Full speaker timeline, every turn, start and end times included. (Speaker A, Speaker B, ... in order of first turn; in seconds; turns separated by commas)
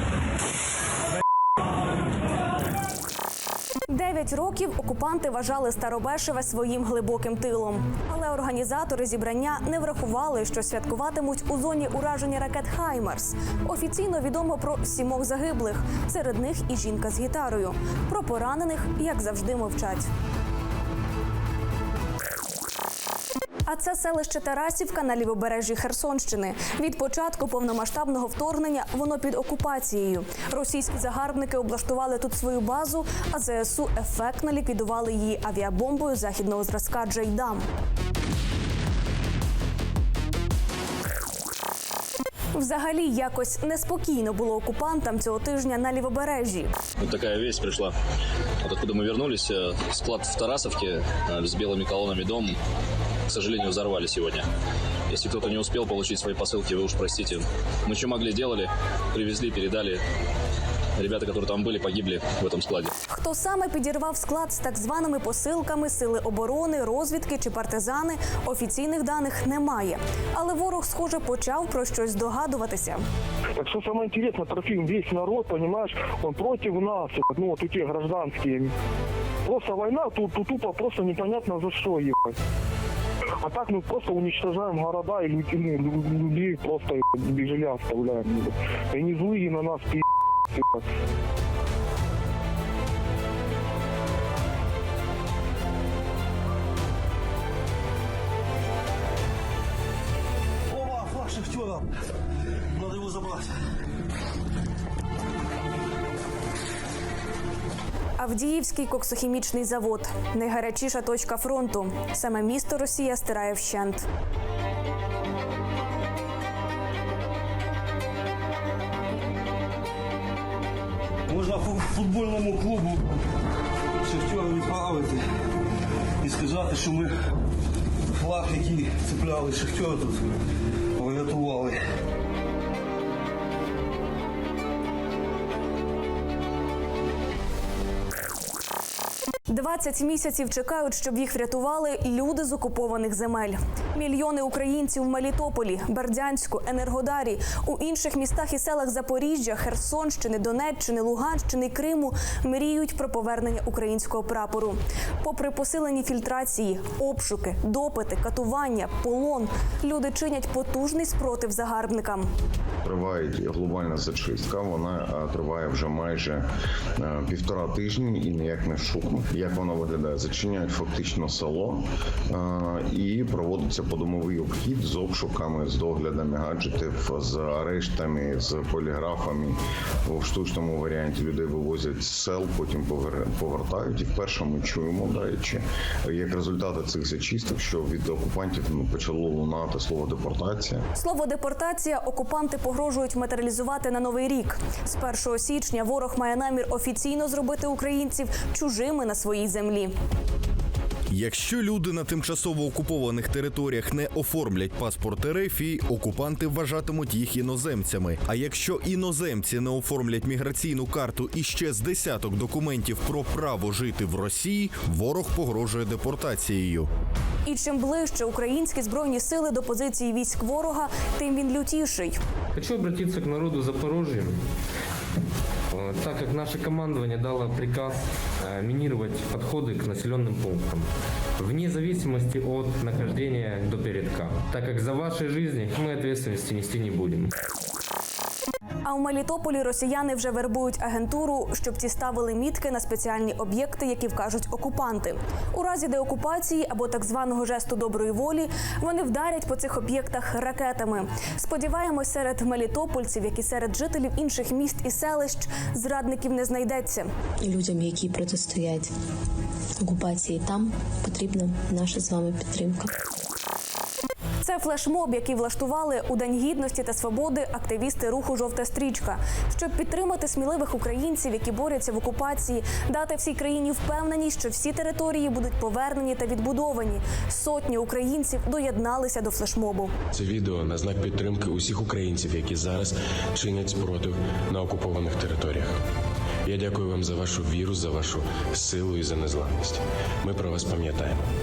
Speaker A: 3.9-20.1, Speaker A: 23.7-37.6, Speaker A: 42.5-46.7, Speaker B: 47.0-47.9, Speaker B: 48.6-52.5, Speaker B: 53.3-54.5, Speaker B: 55.1-60.0, Speaker B: 61.0-62.9, Speaker A: 63.1-73.0, Speaker C: 73.6-78.7, Speaker C: 79.5-82.4, Speaker C: 83.4-90.8, Speaker D: 100.7-101.9, Speaker D: 102.7-103.5, Speaker A: 108.2-114.0, Speaker D: 121.3-123.1, Speaker D: 124.0-125.2, Speaker D: 126.2-127.1, Speaker D: 128.1-130.3, Speaker D: 131.0-131.8, Speaker A: 139.5-162.3, Speaker E: 162.8-166.5, Speaker E: 167.0-190.8, Speaker A: 190.9-199.9, Speaker F: 201.1-216.9, Speaker A: 217.5-222.2, Speaker G: 222.6-224.4, Speaker G: 225.7-230.9, Speaker G: 231.4-237.3, Speaker A: 238.8-257.1, Speaker H: 257.4-258.9, Speaker H: 259.8-262.9, Speaker A: 264.4-279.9, Speaker I: 280.1-285.8, Speaker I: 286.4-291.2